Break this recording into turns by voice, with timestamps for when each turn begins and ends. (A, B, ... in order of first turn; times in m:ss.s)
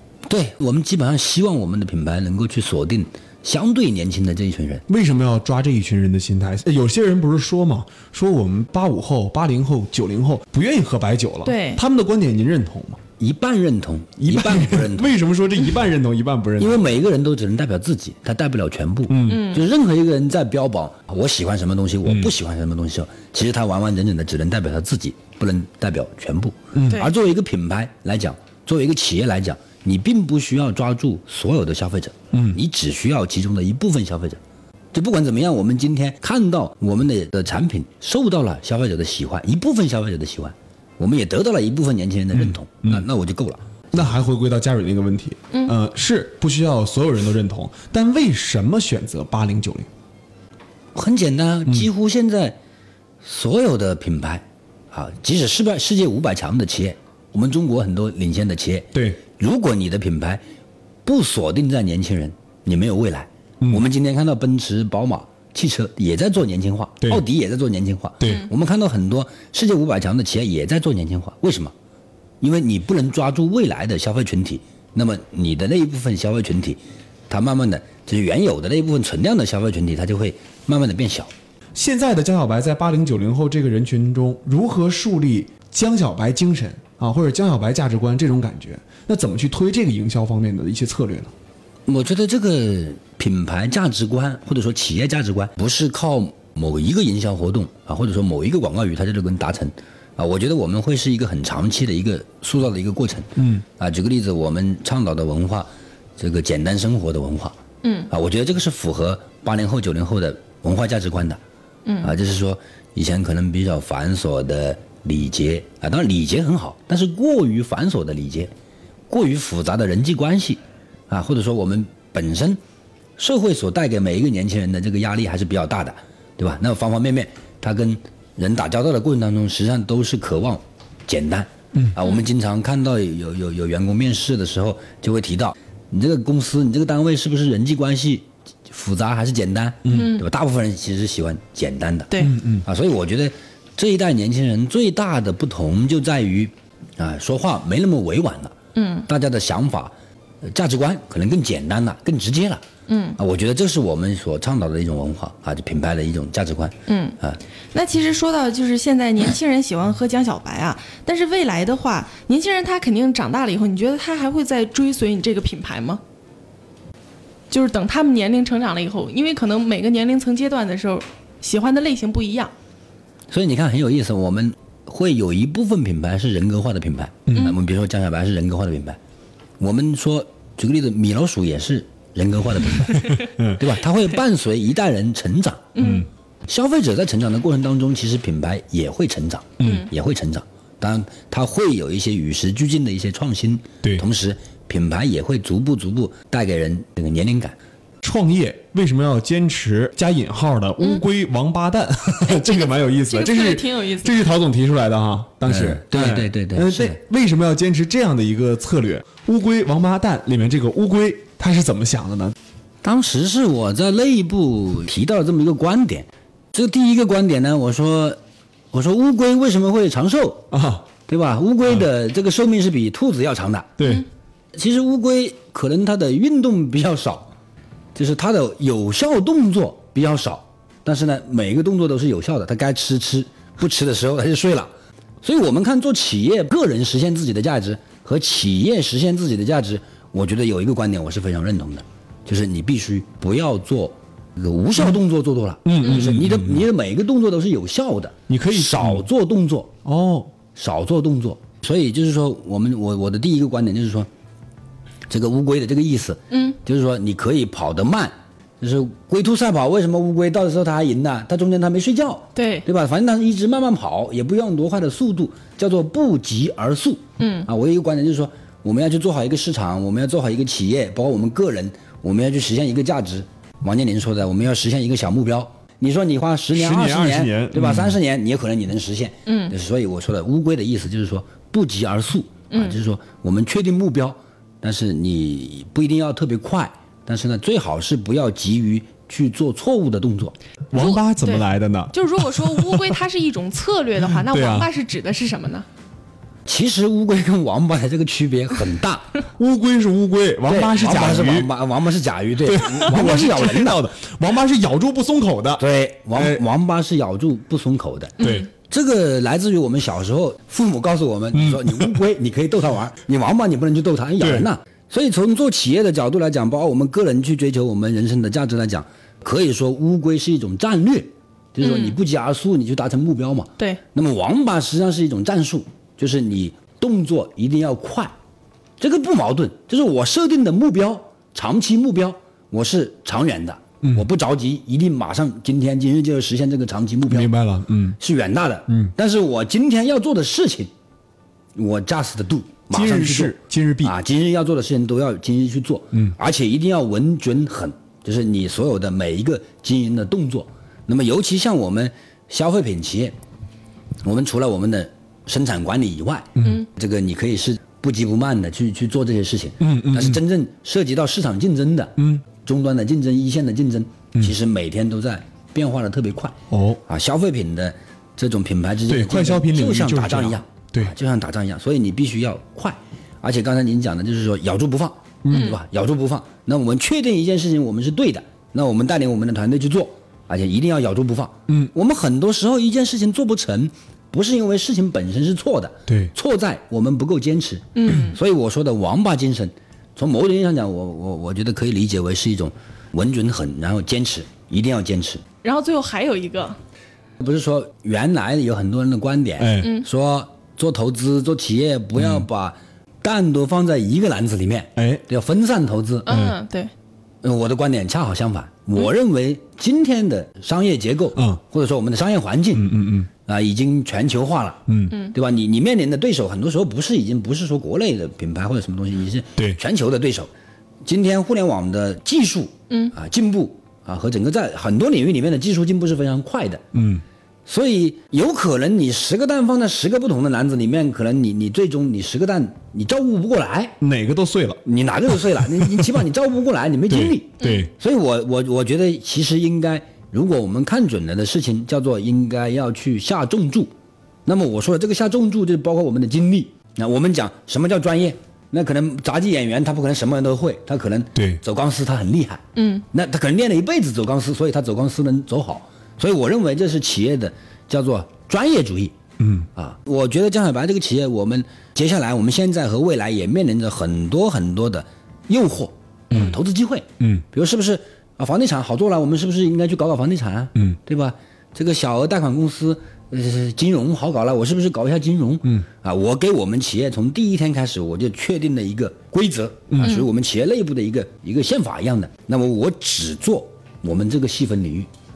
0:00.3-0:04.8 A
0:04.9-0:13.0 B
0:11.4-0:11.8 C
0:13.2-0:15.2 A
0:14.2-0:16.9 B
0:16.6-0:34.4 A
0:19.1-0:19.5 B
0:19.3-0:19.6 C
0:22.0-0:22.3 B
0:26.7-0:27.1 B
0:34.9-0:43.7 A
0:42.3-0:43.0 B
0:43.9-0:49.9 B
0:50.9-0:52.6 A
0:53.2-1:00.4 A
0:58.9-0:59.2 B
1:01.0-1:11.7 A
1:08.2-1:08.5 B
1:12.4-1:21.3 A
1:21.7-1:31.3 B
1:31.9-1:47.6 A
1:43.4-1:43.6 B
1:47.8-1:48.1 C
1:48.1-1:51.4 A
1:51.8-1:52.1 C
1:52.0-1:58.5 A
1:59.1-2:02.6 A
2:03.2-2:32.6 A
2:19.8-2:20.1 B
2:19.9-2:20.2 C
2:22.2-2:22.6 B
2:28.8-2:29.0 C
2:32.9-2:33.2 C
2:33.2-2:37.4 A
2:36.9-2:37.2 C
2:37.7-2:46.0 C
2:47.5-2:52.5 C
2:53.3-2:59.0 A
2:57.3-2:57.5 B
2:59.6-3:05.8 A
3:03.1-3:03.6 B
3:05.7-3:06.0 C
3:05.8-3:06.1 B
3:06.5-3:17.6 A
3:09.6-3:09.9 B
3:09.6-3:09.9 C
3:18.0-3:32.4 B
3:23.1-3:24.2 C
3:25.4-3:27.0 A
3:32.8-3:38.2 A
3:38.7-3:40.5 A
3:40.5-3:40.9 B
3:41.1-3:43.8 A
3:43.8-3:44.0 B
3:44.5-3:47.3 A
3:47.9-3:54.7 A
3:55.2-4:09.7 A
4:05.6-4:06.6 B
4:08.3-4:09.0 B
4:09.8-4:10.3 B
4:10.5-4:14.1 A
4:15.1-4:50.3 A
4:16.3-4:16.6 C
4:22.4-4:22.6 C
4:27.2-4:27.5 C
4:36.5-4:38.0 B
4:39.2-4:39.5 C
4:42.5-4:42.8 C
4:50.7-4:53.0 B
4:50.7-4:55.6 C
4:54.1-4:54.7 B
4:56.4-4:59.2 A
4:59.4-5:01.5 B
5:00.5-5:03.8 A
5:02.4-5:06.4 B
5:05.6-5:28.1 A
5:08.2-5:08.5 C
5:08.2-5:08.5 B
5:11.3-5:12.0 B
5:14.2-5:14.5 B
5:21.6-5:22.0 C
5:28.8-5:37.3 A
5:37.1-5:38.0 B
5:38.0-5:40.7 A
5:38.7-5:38.9 B
5:41.6-5:53.1 A
5:42.7-5:44.0 B
5:54.0-6:35.2 A
5:56.4-5:56.6 B
5:59.6-6:00.2 B
6:02.0-6:02.2 B
6:06.5-6:06.8 B
6:08.9-6:10.9 B
6:15.2-6:15.6 B
6:15.3-6:15.6 C
6:25.9-6:26.1 B
6:27.7-6:28.2 C
6:35.4-6:36.6 C
6:37.2-6:46.1 A
6:39.4-6:39.8 B
6:39.6-6:39.8 C
6:44.8-6:45.0 B
6:46.0-6:46.7 C
6:46.1-6:46.4 B
6:47.2-6:54.6 A
6:51.2-6:51.4 B
6:52.5-6:53.1 B
6:54.7-6:55.0 B
6:55.1-7:00.3 A
7:00.8-7:06.6 A
7:06.7-7:07.0 B
7:07.4-7:13.8 A
7:13.8-7:16.0 B
7:14.6-7:23.7 A
7:16.9-7:17.7 B
7:17.4-7:17.7 C
7:24.2-7:39.0 A
7:31.2-7:31.4 B
7:32.6-7:32.8 C
7:39.2-7:39.5 B
7:39.5-8:04.9 A
7:59.7-8:00.0 B
7:59.8-8:00.1 C